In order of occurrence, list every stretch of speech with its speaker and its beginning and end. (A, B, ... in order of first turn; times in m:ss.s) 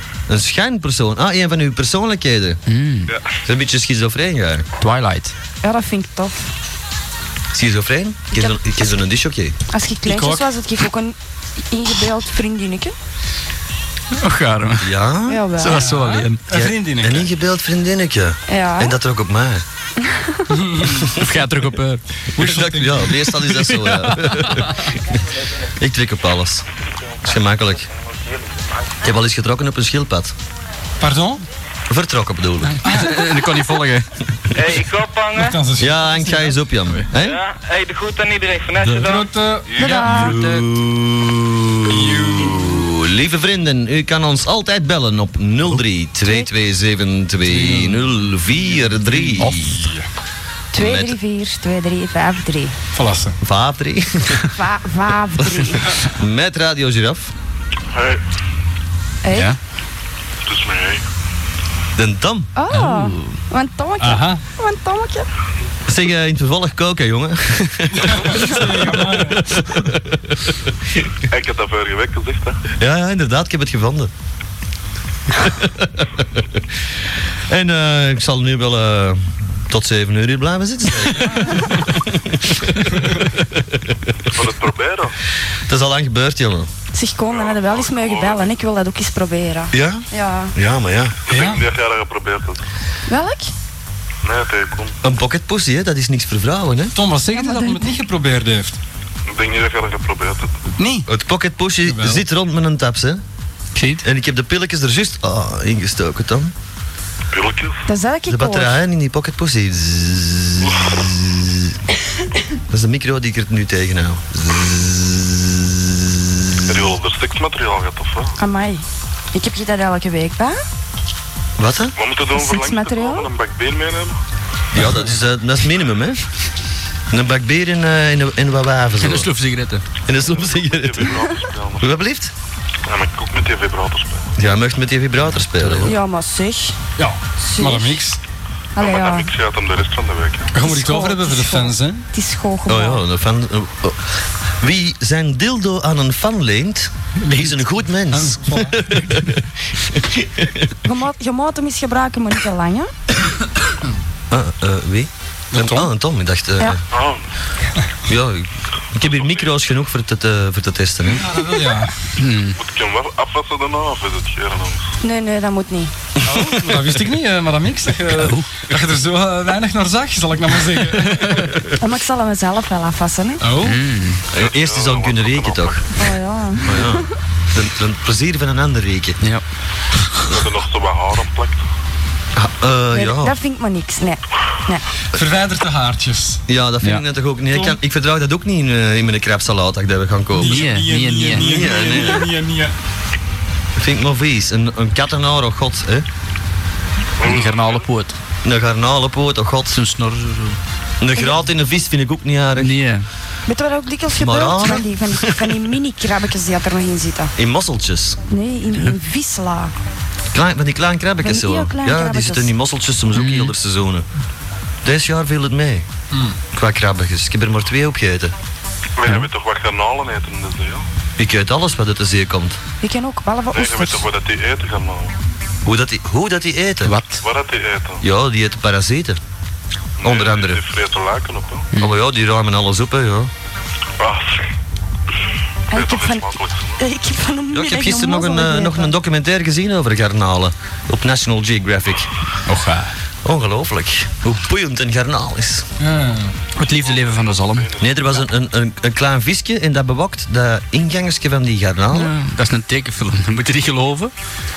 0:00.3-0:02.6 A
0:02.7-0:03.1 B
0:03.4-0:04.7 A
0:04.8-0:05.3 B
0:05.6-0:06.4 C
0:07.5-0:09.6 A
0:09.7-0:11.2 C
0:10.0-0:10.5 D
0:11.7-0:12.9 C
0:14.1-0:14.9 B
0:14.8-0:19.6 A
0:15.3-0:15.9 C
0:15.6-0:16.4 B
0:15.7-0:17.3 D
0:18.5-0:19.0 C
0:20.0-0:20.5 C
0:20.5-0:21.1 D
0:21.0-0:21.2 A
0:21.1-0:22.0 B
0:22.4-0:23.1 D
0:22.4-0:25.0 A
0:23.8-0:24.7 B
0:25.7-0:26.6 A
0:27.2-0:27.9 A
0:29.0-0:30.3 A
0:31.0-0:31.4 D
0:31.9-0:32.8 A
0:32.8-0:33.4 D
0:32.8-0:34.1 B
0:34.5-0:35.6 E
0:35.3-0:36.6 D
0:35.8-0:37.4 A
0:37.2-0:39.9 E
0:38.8-0:40.1 D
0:39.8-0:40.4 C
0:39.9-0:40.7 B
0:40.0-0:49.8 A
0:41.9-0:42.8 D
0:46.2-0:46.5 C
0:47.5-0:48.1 D
0:48.7-0:50.0 D
0:50.7-0:52.7 C
0:50.8-0:51.2 A
0:52.9-0:53.4 D
0:53.4-0:54.4 A
0:54.5-0:55.8 C
0:55.4-0:57.3 A
0:57.9-0:58.2 F
0:59.2-0:59.5 C
0:59.3-0:59.6 B
1:00.4-1:01.0 F
1:02.0-1:02.5 A
1:02.6-1:05.3 C
1:02.7-1:03.4 B
1:04.0-1:04.4 D
1:05.9-1:10.5 A
1:07.9-1:09.7 D
1:11.3-1:12.6 F
1:12.8-1:14.1 A
1:15.4-1:16.6 A
1:17.5-1:23.8 A
1:24.2-1:25.1 F
1:25.7-1:26.7 A
1:26.9-1:30.5 C
1:27.2-1:28.5 F
1:29.7-1:31.2 A
1:31.3-1:32.6 F
1:31.3-1:31.6 D
1:33.1-1:33.5 C
1:34.2-1:34.9 F
1:35.0-1:36.9 A
1:36.9-1:38.8 D
1:37.3-1:37.9 C
1:39.3-1:40.6 F
1:40.8-1:41.1 D
1:41.1-1:43.2 A
1:41.8-1:42.2 D
1:43.7-1:44.0 B
1:44.0-1:46.5 A
1:47.3-1:47.8 F
1:47.9-1:48.8 C
1:48.3-1:51.7 A
1:50.6-1:51.0 F
1:52.7-1:56.9 A
1:56.7-1:58.3 F
1:58.4-2:00.6 C
2:01.6-2:01.9 A
2:02.0-2:04.2 F
2:02.3-2:03.3 C
2:04.7-2:06.2 A
2:07.1-2:09.3 A
2:09.0-2:09.8 B
2:10.0-2:11.2 A
2:10.2-2:12.0 F
2:11.8-2:12.3 A
2:12.9-2:14.3 F
2:14.4-2:16.0 A
2:15.8-2:16.8 C
2:17.0-2:18.2 D
2:17.4-2:18.0 C
2:18.7-2:19.3 C
2:18.8-2:20.5 F
2:20.5-2:22.0 D
2:20.6-2:23.0 C
2:22.7-2:24.0 A
2:24.6-2:30.7 A
2:27.2-2:27.6 D
2:28.1-2:29.2 D
2:30.8-2:32.9 C
2:34.3-2:36.8 A
2:35.5-2:35.9 D
2:36.9-2:37.2 F
2:38.1-2:41.3 A
2:39.0-2:39.6 F
2:41.0-2:41.9 D
2:42.2-2:42.6 B
2:42.6-2:44.8 F
2:45.0-2:45.9 C
2:46.2-2:46.8 A
2:46.2-2:51.5 D
2:48.1-2:48.5 B
2:51.0-2:51.5 B
2:51.8-2:53.4 C
2:53.4-2:53.8 D
2:53.6-2:54.2 B
2:54.3-2:55.8 F
2:54.3-2:55.8 A
2:56.0-2:57.1 C
2:56.6-2:59.2 A
3:00.3-3:01.6 F
3:02.4-3:03.4 A
3:02.9-3:04.8 C
3:05.1-3:06.4 D
3:06.5-3:10.7 A
3:07.5-3:07.8 D
3:10.3-3:12.7 D
3:10.4-3:11.6 B
3:11.3-3:12.3 A
3:13.8-3:16.0 A
3:17.2-3:17.9 F
3:17.2-3:18.1 B
3:18.4-3:19.8 A
3:19.7-3:20.6 B
3:21.0-3:22.8 A
3:22.6-3:23.1 B
3:23.5-3:27.3 C
3:24.2-3:25.6 A
3:27.4-3:28.2 A
3:28.3-3:29.7 C
3:30.3-3:34.0 A
3:31.2-3:32.5 C
3:33.1-3:33.5 B
3:34.8-3:35.8 A
3:36.1-3:36.4 D
3:36.5-3:38.3 A
3:39.0-3:40.8 F
3:41.2-3:42.6 A
3:42.8-3:44.0 C
3:43.5-3:45.2 F
3:45.6-3:47.0 A
3:46.8-3:47.2 B
3:47.2-3:48.0 F
3:48.0-3:49.2 A
3:50.0-3:51.7 F
3:50.0-3:50.6 A
3:51.7-3:52.0 B
3:51.8-3:53.3 A
3:54.0-3:54.4 F
3:55.7-3:58.9 C
3:55.7-3:56.8 F
3:57.5-4:02.1 A
4:02.4-4:02.9 B
4:03.2-4:05.6 A
4:05.8-4:06.5 D
4:06.5-4:07.7 B
4:06.6-4:08.2 F
4:07.8-4:12.1 A
4:11.9-4:14.1 B